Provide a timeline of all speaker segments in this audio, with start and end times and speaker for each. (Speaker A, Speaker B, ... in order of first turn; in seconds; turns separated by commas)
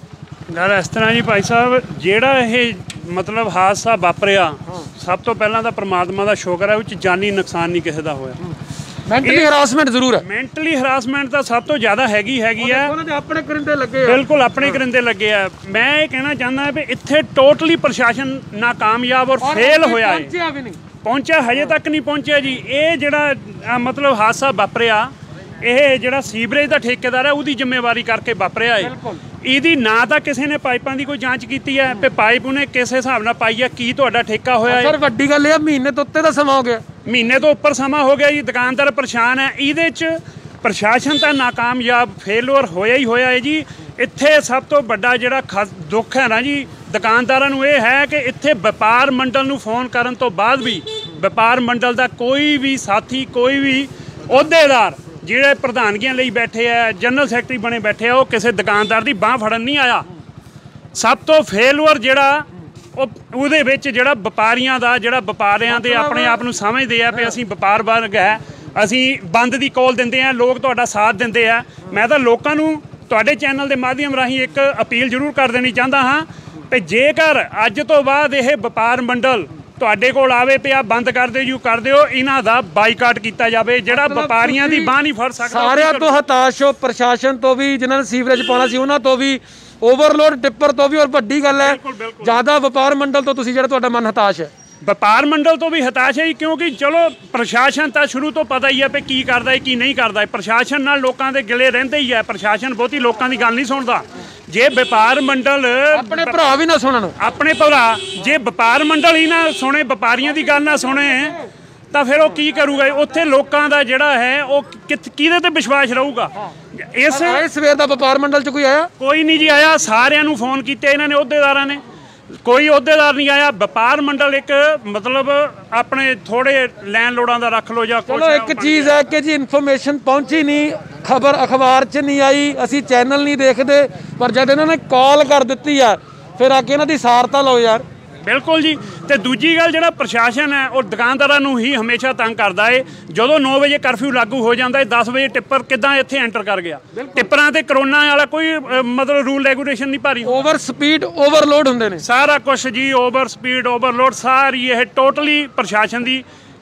Speaker A: 0.5-8.4, Speaker B: 9.1-10.2, Speaker A: 9.2-9.6, Speaker A: 10.2-12.9, Speaker B: 12.6-14.8, Speaker A: 14.1-20.3, Speaker B: 19.4-20.8, Speaker A: 21.0-25.1, Speaker A: 25.6-28.9, Speaker B: 28.8-29.2, Speaker A: 29.4-34.9, Speaker B: 34.7-36.8, Speaker A: 37.1-60.1, Speaker A: 61.0-62.4, Speaker A: 63.0-86.2, Speaker B: 65.7-66.4, Speaker B: 83.9-84.9, Speaker B: 85.5-94.5, Speaker A: 91.5-92.4, Speaker A: 94.8-106.4, Speaker B: 105.9-107.1, Speaker A: 107.2-111.4, Speaker A: 111.9-117.4, Speaker B: 117.1-118.9, Speaker A: 119.0-121.8, Speaker A: 122.4-128.9, Speaker B: 128.1-137.8, Speaker A: 138.3-150.4, Speaker B: 146.9-147.3, Speaker B: 150.2-152.0, Speaker A: 152.0-156.2